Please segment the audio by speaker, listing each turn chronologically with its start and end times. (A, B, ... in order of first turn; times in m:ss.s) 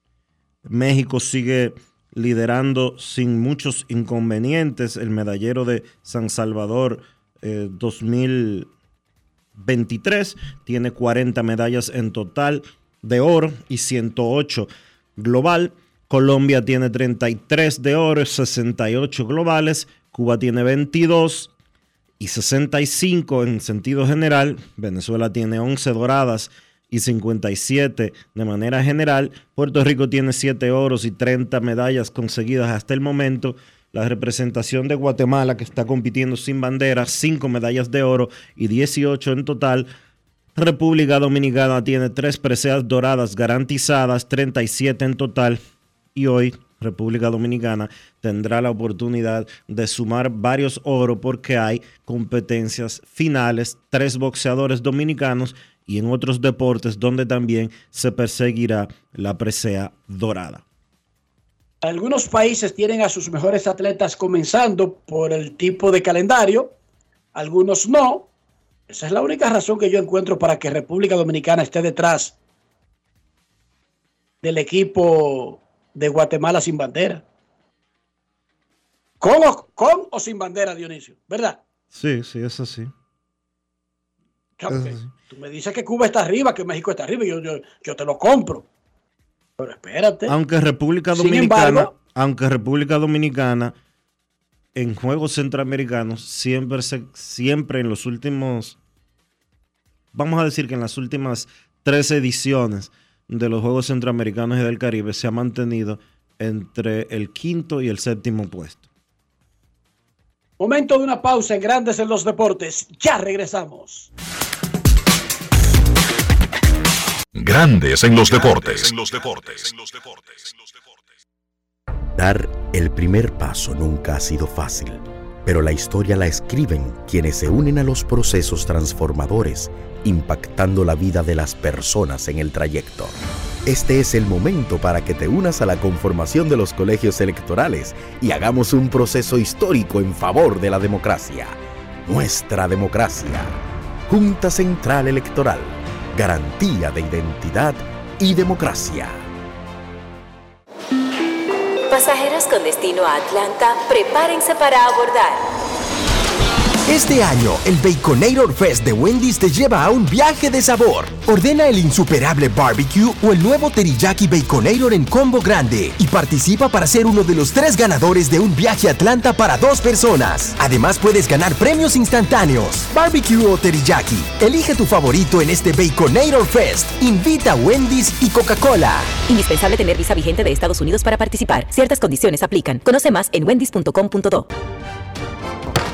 0:00.6-0:08.7 A
0:09.6-0:21.5 A
0:22.2-0:39.9 A
0:40.6-0:45.6 A
0:46.2-1:00.6 A
1:01.8-1:06.7 B
1:07.4-1:08.3 B
1:08.9-1:12.4 B
1:14.4-1:17.2 B
1:19.2-1:21.6 B
1:21.9-1:22.9 A
1:24.6-1:28.7 B
1:24.7-1:25.1 A
1:29.6-1:30.3 B
1:30.3-1:33.8 A
1:31.1-1:31.9 B
1:34.8-1:38.8 A
1:40.1-1:48.8 A
1:50.6-1:54.1 B
1:57.4-2:00.9 C
2:02.2-2:23.6 D
2:24.1-2:29.2 D
2:31.9-2:35.5 E
2:36.9-2:59.2 F
2:59.2-3:04.5 E